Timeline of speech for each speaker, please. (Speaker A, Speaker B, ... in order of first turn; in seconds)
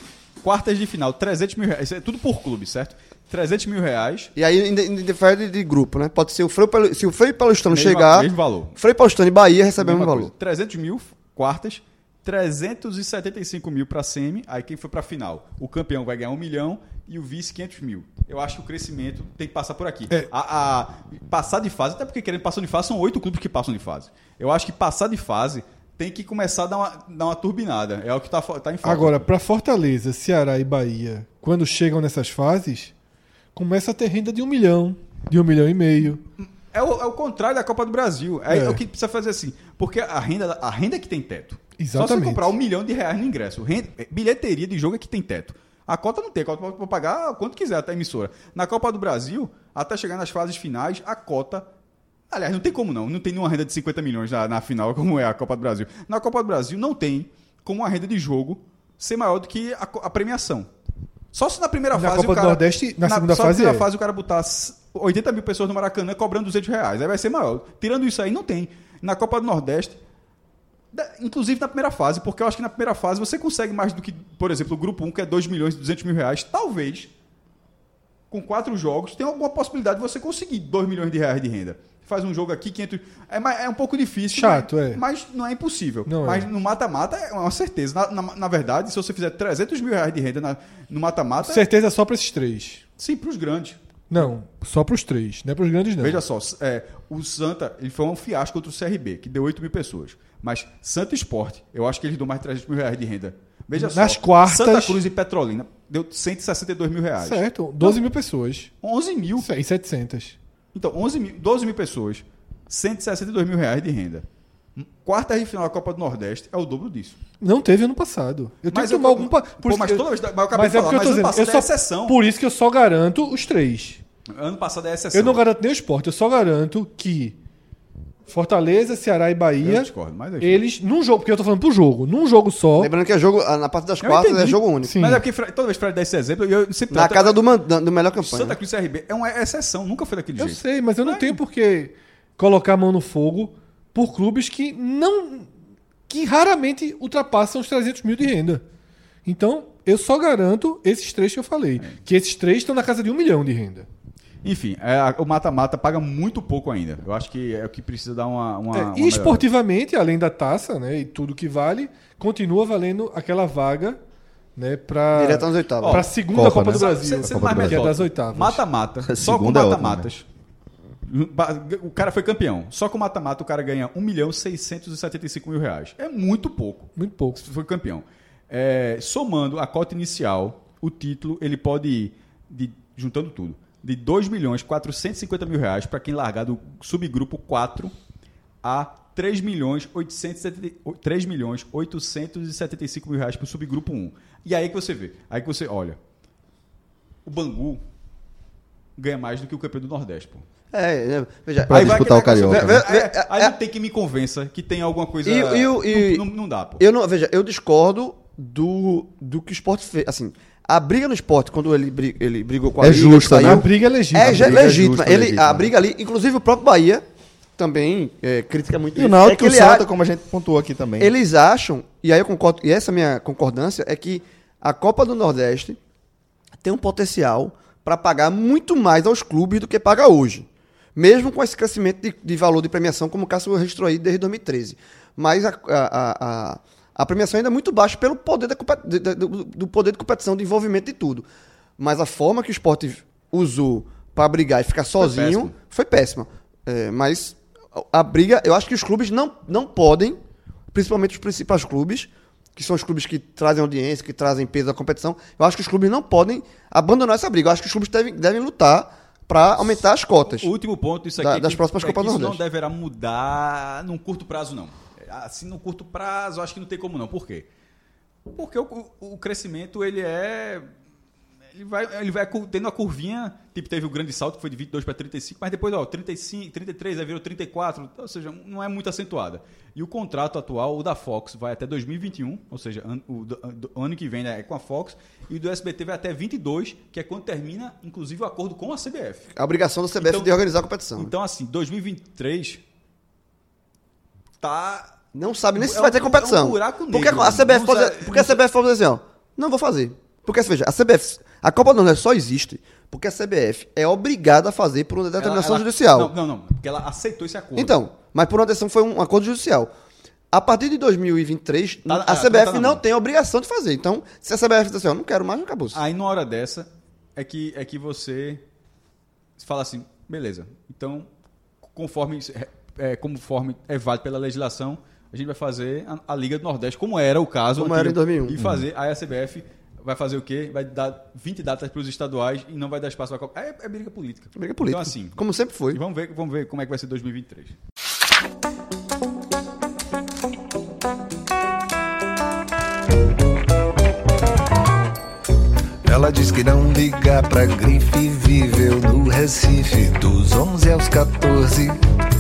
Speaker A: 0.4-4.3, 7.7-8.8, 9.8-29.2, 36.4-51.7, 52.3-60.7, 61.3-70.0, 70.9-77.1, 78.3-91.7, 93.0-94.3, 96.0-108.0, 108.8-109.5, 110.7-114.2, 114.8-117.2, 118.7-122.2, 124.3-125.4, 129.6-130.6, 134.0-137.4, 138.2-141.4, 154.4-159.4, 165.8-170.2, 171.1-187.9, 188.6-196.0, 197.3-197.8, 199.0-200.4, 201.7-206.8, 245.0-245.5, 260.2-267.5, 268.3-270.7, 271.6-289.3, 290.0-290.3, 291.0-292.6, 294.4-294.9, 295.6-298.4, 305.2-307.8, 311.9-312.8, 315.7-318.4, 319.4-321.1, 321.8-335.2, 335.7-337.6
Speaker B: 4.4-10.3, 132.8-135.0, 136.9-138.6, 165.1-166.1, 200.7-203.5, 205.2-206.2, 206.8-217.0, 217.6-219.8, 221.0-225.8, 226.6-241.3, 241.8-250.2, 250.7-260.5, 261.2-262.4, 289.4-291.1, 295.1-306.1, 307.6-309.7, 310.3-315.8, 327.6-328.4, 334.4-335.8
Speaker C: 28.8-32.9, 33.5-36.2, 38.5-38.8, 41.8-42.5, 61.9-63.9, 84.3-85.0, 86.1-86.5, 91.4-92.8, 94.1-96.2, 103.8-105.0, 107.2-108.7, 109.4-110.4, 117.4-124.0, 125.1-127.4, 128.3-129.9, 130.4-132.9, 134.9-135.2, 140.4-145.5, 146.1-148.6, 149.3-153.9, 158.7-164.0, 164.6-168.6, 177.0-177.4, 213.0-214.6
Speaker D: 166.3-167.8, 169.1-170.1, 201.7-202.8, 212.8-215.7, 218.9-221.1, 328.4-328.7
Speaker E: 345.9-351.8